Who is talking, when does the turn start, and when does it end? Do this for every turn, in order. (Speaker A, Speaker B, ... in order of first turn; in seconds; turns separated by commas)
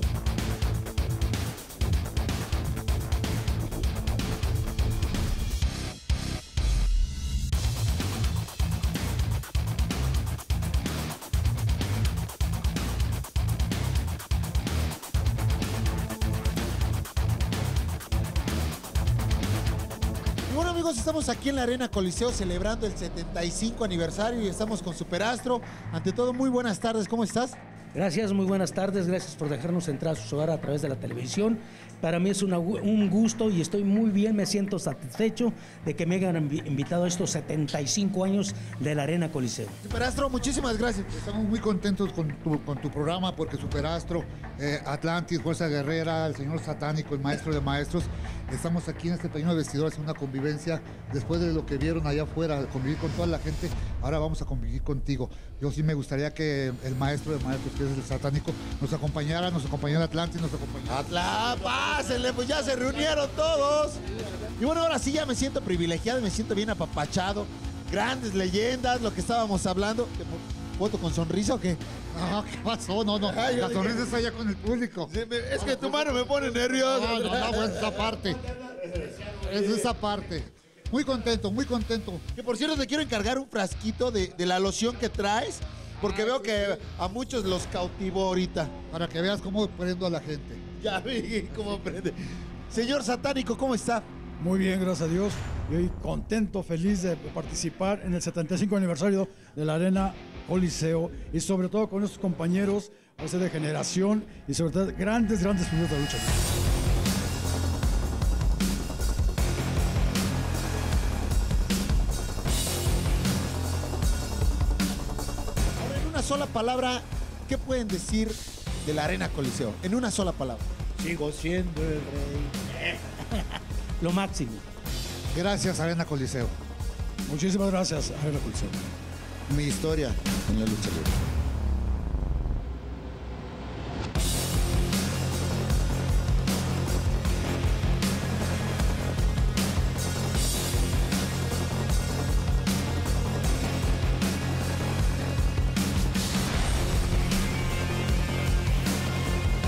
Speaker A: 20.5-27.6, Speaker B: 27.9-39.8, Speaker A: 39.8-41.2, Speaker C: 41.1-61.0, Speaker A: 60.9-64.0, Speaker A: 64.6-71.8, Speaker C: 72.1-75.1, Speaker A: 73.2-74.2, Speaker A: 75.1-77.9, Speaker C: 76.8-78.4, Speaker C: 79.2-82.2, Speaker A: 82.3-88.7, Speaker C: 88.9-90.6, Speaker A: 90.8-92.2, Speaker A: 92.7-94.0, Speaker D: 94.4-106.4, Speaker A: 115.8-120.7, Speaker B: 124.0-124.6, Speaker C: 125.3-126.5, Speaker D: 127.2-128.8, Speaker A: 129.5-131.1